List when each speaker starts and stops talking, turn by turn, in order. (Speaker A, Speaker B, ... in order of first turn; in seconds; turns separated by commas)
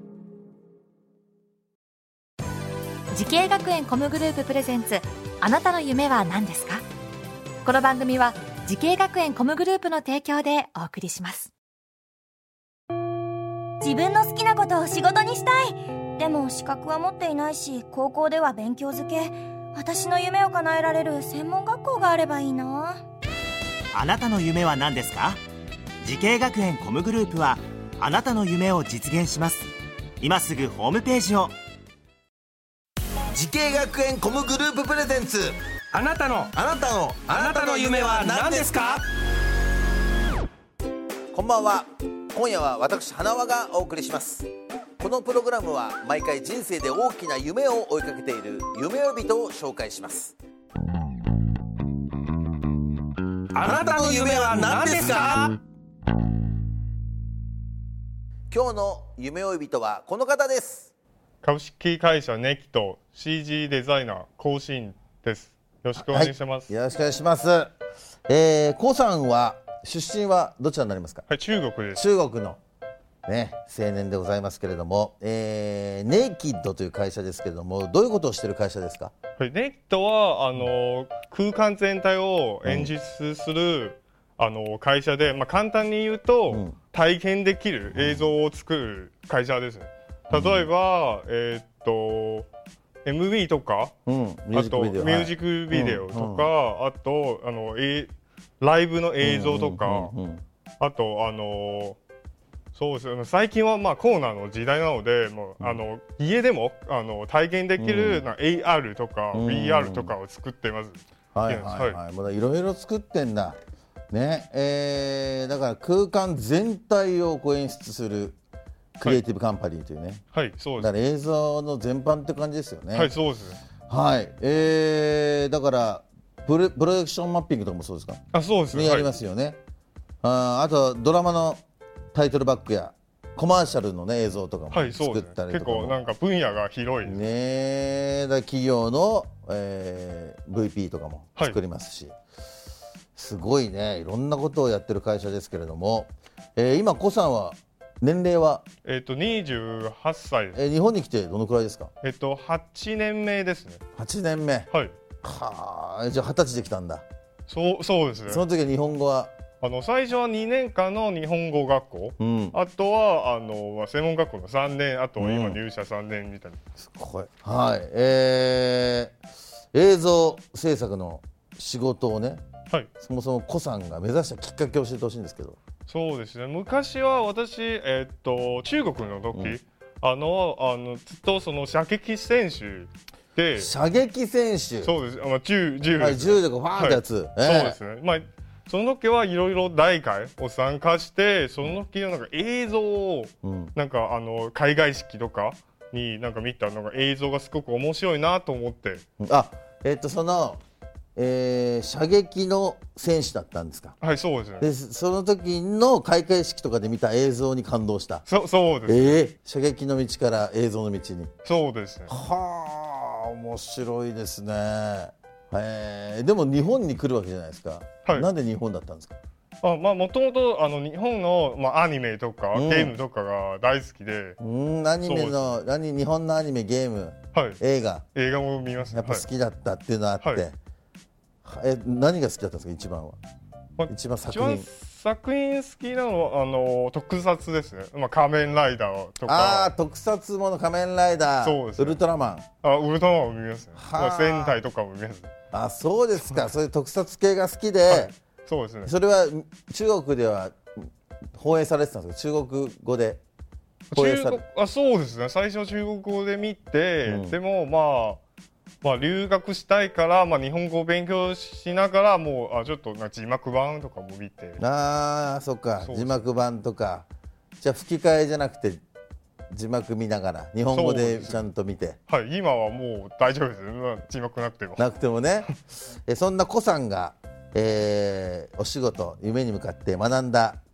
Speaker A: 3.1-6.8, Speaker A: 7.6-11.5, Speaker B: 13.8-23.0, Speaker C: 23.9-25.4, Speaker C: 26.0-31.5, Speaker D: 33.3-35.6, Speaker E: 35.9-36.5, Speaker D: 36.5-38.7, Speaker E: 37.3-39.0, Speaker D: 41.3-50.3, Speaker E: 53.5-55.5, Speaker D: 53.6-55.4, Speaker D: 58.5-60.9, Speaker F: 61.4-66.7, Speaker D: 66.0-67.7, Speaker D: 68.3-71.3, Speaker F: 71.3-72.0, Speaker D: 71.9-72.6, Speaker D: 73.2-79.1, Speaker F: 79.4-92.5, Speaker D: 82.6-82.9, Speaker D: 86.5-86.8, Speaker D: 87.9-88.3, Speaker D: 90.3-90.7, Speaker F: 93.0-93.9, Speaker D: 94.0-96.5, Speaker F: 94.5-100.1, Speaker D: 99.2-100.4, Speaker F: 100.8-102.0, Speaker F: 102.7-112.0, Speaker D: 107.8-108.3, Speaker D: 109.3-110.1, Speaker D: 111.3-113.6, Speaker D: 114.1-118.4, Speaker D: 119.0-120.2, Speaker F: 120.3-120.9, Speaker D: 120.8-123.1, Speaker F: 122.9-123.6, Speaker D: 123.9-129.6, Speaker F: 128.3-129.2, Speaker D: 130.2-131.6, Speaker D: 132.1-136.0, Speaker F: 134.7-137.3, Speaker D: 137.0-142.1, Speaker D: 143.1-148.6, Speaker F: 148.8-150.6, Speaker D: 150.5-151.9, Speaker F: 152.0-153.8, Speaker D: 153.9-154.7, Speaker F: 154.7-154.9, Speaker D: 155.2-157.0, Speaker F: 157.5-158.4, Speaker D: 158.3-159.3, Speaker F: 159.6-166.6, Speaker D: 162.2-162.6, Speaker D: 165.2-165.6, Speaker D: 166.8-169.1, Speaker D: 169.7-172.4, Speaker D: 173.0-175.6, Speaker F: 175.8-183.7, Speaker D: 179.3-179.6, Speaker D: 183.5-184.9, Speaker F: 184.8-199.0, Speaker D: 185.9-187.8, Speaker D: 193.4-193.7, Speaker D: 199.2-200.6, Speaker D: 201.2-204.0, Speaker F: 204.0-204.7, Speaker D: 204.6-208.2, Speaker F: 208.2-209.2, Speaker D: 208.9-211.3, Speaker F: 211.4-212.1, Speaker D: 212.1-219.1, Speaker F: 219.6-224.4, Speaker D: 222.5-222.9, Speaker D: 224.4-228.1, Speaker F: 225.0-225.6, Speaker F: 227.3-227.6, Speaker F: 228.1-229.2, Speaker D: 228.9-230.6, Speaker D: 231.4-233.2, Speaker F: 233.8-239.7, Speaker D: 233.9-234.7, Speaker D: 239.2-242.4, Speaker F: 241.4-242.0, Speaker F: 242.6-245.3, Speaker D: 243.7-244.6, Speaker D: 245.5-248.1, Speaker F: 247.9-248.9, Speaker D: 248.8-253.2, Speaker F: 253.9-258.2, Speaker D: 253.9-254.4, Speaker D: 257.0-257.4, Speaker F: 258.8-264.6, Speaker D: 264.6-267.1, Speaker F: 265.8-266.3, Speaker D: 267.6-268.8, Speaker D: 269.5-272.0, Speaker F: 270.7-271.4, Speaker F: 272.1-274.9, Speaker D: 274.8-280.6